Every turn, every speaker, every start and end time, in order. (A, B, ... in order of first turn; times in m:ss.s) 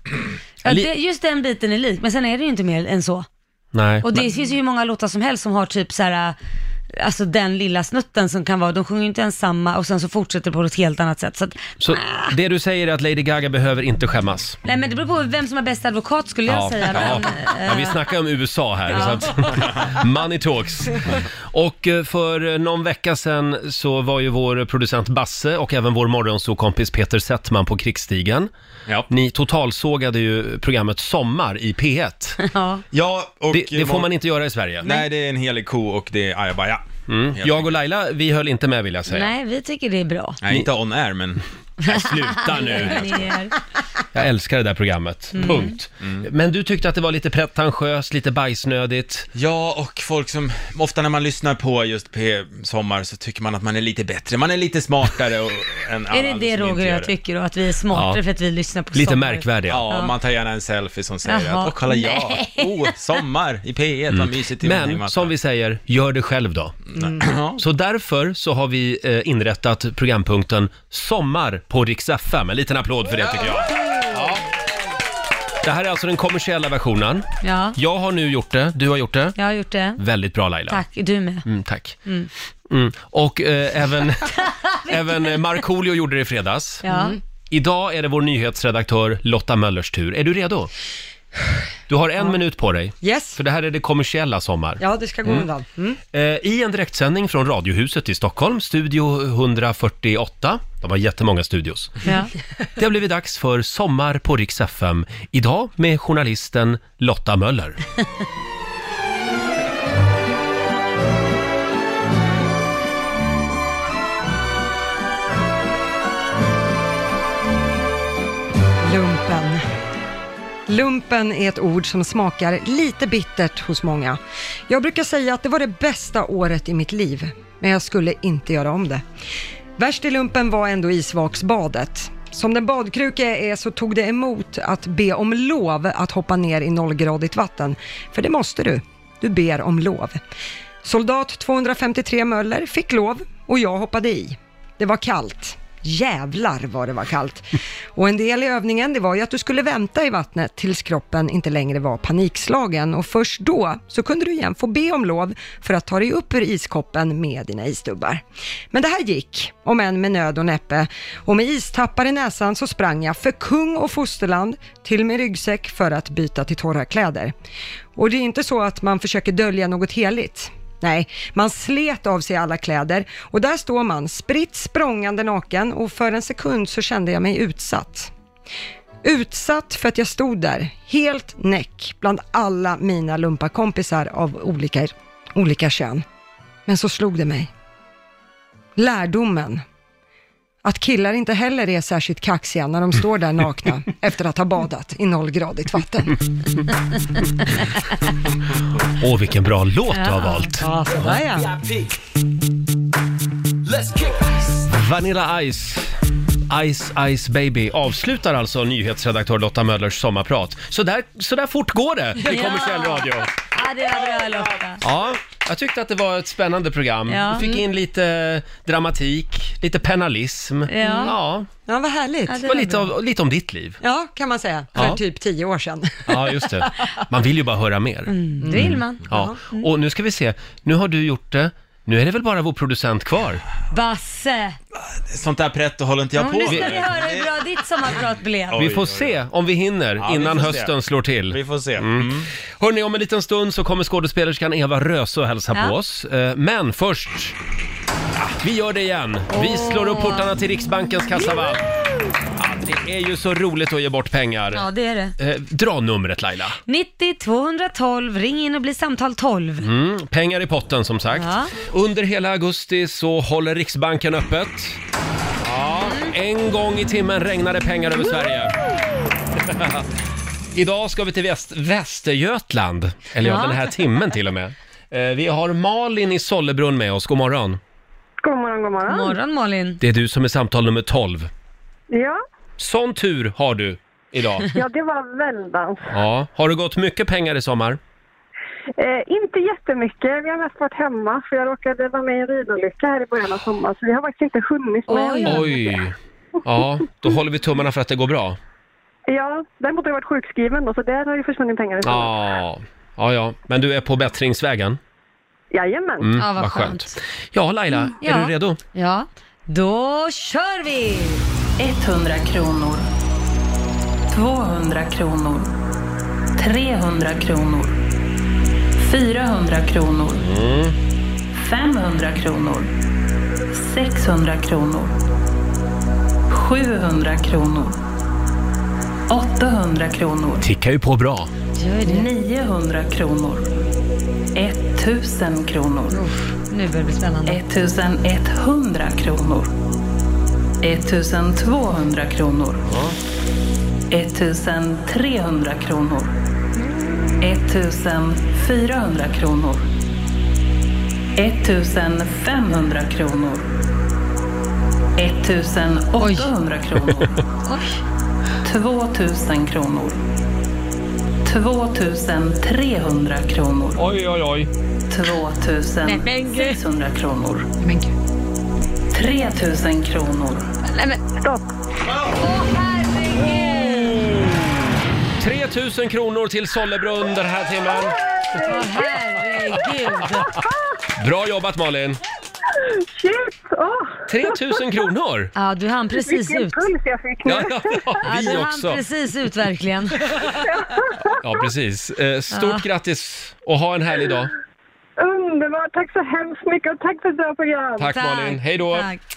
0:00.6-0:03.2 A
0:00.6-0:00.9 B
0:03.7-0:04.2 B
0:04.0-0:06.4 A
0:06.9-0:12.3 A
0:11.8-0:14.6 B
0:14.6-0:18.0 A
0:16.5-0:28.5 B
0:18.9-0:19.7 A
0:29.1-0:32.4 B
0:32.4-0:32.8 A
0:32.9-0:34.1 C
0:33.5-0:34.9 B
0:34.8-0:36.8 C
0:37.1-0:39.3 B
0:37.4-0:37.7 C
0:39.1-0:40.4 A
0:40.4-0:41.4 C
0:41.8-0:43.5 A
0:41.8-0:43.3 B
0:44.1-0:49.3 B
0:45.3-0:45.8 A
0:49.3-0:57.1 C
0:56.1-1:00.1 A
0:57.9-0:58.2 B
0:58.9-0:59.8 B
0:59.7-1:05.3 C
1:01.2-1:02.9 A
1:04.1-1:06.8 B
1:06.9-1:07.6 C
1:07.6-1:14.4 B
1:13.3-1:13.6 C
1:15.6-1:19.4 B
1:17.4-1:17.8 A
1:19.4-1:20.0 A
1:20.0-1:20.8 B
1:20.7-1:21.4 A
1:21.4-1:22.0 B
1:22.0-1:22.3 A
1:22.7-1:26.8 B
1:24.4-1:25.3 A
1:26.8-1:27.2 A
1:26.8-1:27.2 D
1:27.5-1:30.7 B
1:31.9-1:35.5 B
1:33.0-1:33.4 D
1:34.8-1:36.0 D
1:36.1-1:42.0 B
1:42.0-1:42.3 A
1:42.8-1:47.8 B
1:58.8-1:59.6 D
2:00.7-2:09.0 D
2:09.8-2:20.2 D
2:20.8-2:47.3 D
2:48.0-2:58.1 D
2:59.0-3:06.0 D
3:06.6-3:07.5 D
3:08.8-3:09.6 D
3:10.6-3:16.2 D
3:19.0-3:21.2 B
3:19.9-3:20.6 A
3:20.6-3:21.5 D
3:24.7-3:25.9 B
3:26.5-3:33.3 B
3:32.2-3:34.8 A
3:34.8-3:41.5 B
3:37.1-3:37.5 A
3:40.7-3:41.2 A
3:40.8-3:41.1 D
3:41.6-3:42.4 D
3:42.3-3:42.9 A
3:42.4-3:43.8 B
3:43.8-3:46.7 D
3:44.7-3:45.0 B
3:46.0-3:53.4 B
3:48.1-3:49.7 A
3:48.4-3:49.2 D
3:53.7-3:54.6 A
3:54.8-3:57.4 C
3:56.2-3:58.6 A
3:56.5-3:56.8 B
3:58.5-3:59.2 C
3:58.5-4:07.4 B
4:00.0-4:00.7 C
4:01.3-4:02.3 C
4:08.4-4:11.6 B
4:09.3-4:10.3 A
4:11.2-4:11.5 A
4:12.4-4:14.6 B
4:14.5-4:15.1 A
4:15.2-4:16.6 B
4:16.7-4:19.7 A
4:19.6-4:24.8 B
4:21.1-4:21.5 A
4:25.4-4:28.6 B
4:25.8-4:26.1 A
4:29.4-4:29.9 B
4:30.5-4:37.6 B
4:33.2-4:33.6 A
4:38.2-4:39.2 E
4:38.9-4:39.8 A
4:39.8-4:41.3 B
4:41.9-4:42.2 E
4:42.6-4:44.5 B
4:44.5-4:45.9 E
4:45.9-4:47.8 B
4:48.8-4:55.8 E
4:54.9-4:55.4 A
4:55.2-4:58.4 B
4:59.1-5:02.1 E
5:01.8-5:04.8 B
5:05.5-5:06.1 E
5:06.0-5:08.6 B
5:06.2-5:06.9 A
5:07.7-5:11.2 A
5:11.6-5:12.8 F
5:14.1-5:15.5 F
5:16.4-5:17.8 F
5:18.8-5:20.2 F
5:20.2-5:20.7 B
5:21.3-5:22.7 F
5:23.5-5:25.0 F
5:26.3-5:27.8 F
5:29.1-5:30.5 F
5:30.4-5:31.3 B
5:31.6-5:32.1 A
5:31.8-5:33.6 F
5:34.3-5:36.1 F
5:35.9-5:37.4 A
5:37.2-5:39.5 F
5:40.6-5:42.6 F
5:42.6-5:42.9 B
5:43.9-5:46.2 F
5:47.2-5:49.7 F
5:51.2-5:53.5 F
5:55.0-5:57.2 F
5:56.0-5:56.3 A
5:57.4-5:57.8 A
5:58.4-6:00.0 F
6:01.2-6:03.8 F
6:03.8-6:04.5 B
6:04.9-6:07.5 F
6:05.8-6:06.6 A
6:08.9-6:10.5 F
6:10.7-6:11.0 A
6:11.2-6:11.4 E
6:12.1-6:14.0 A
6:13.5-6:14.6 B
6:15.2-6:18.0 B
6:17.8-6:18.7 E
6:18.4-6:20.3 A
6:20.0-6:20.4 B
6:21.0-6:22.0 B
6:22.7-6:24.6 E
6:24.1-6:25.3 B
6:25.4-6:26.7 A
6:25.9-6:28.2 E
6:27.2-6:28.8 B
6:28.0-6:30.0 A
6:30.2-6:31.2 E
6:31.2-6:34.3 B
6:32.3-6:32.6 A
6:35.0-6:37.9 E
6:37.8-6:38.9 B
6:37.9-6:39.0 A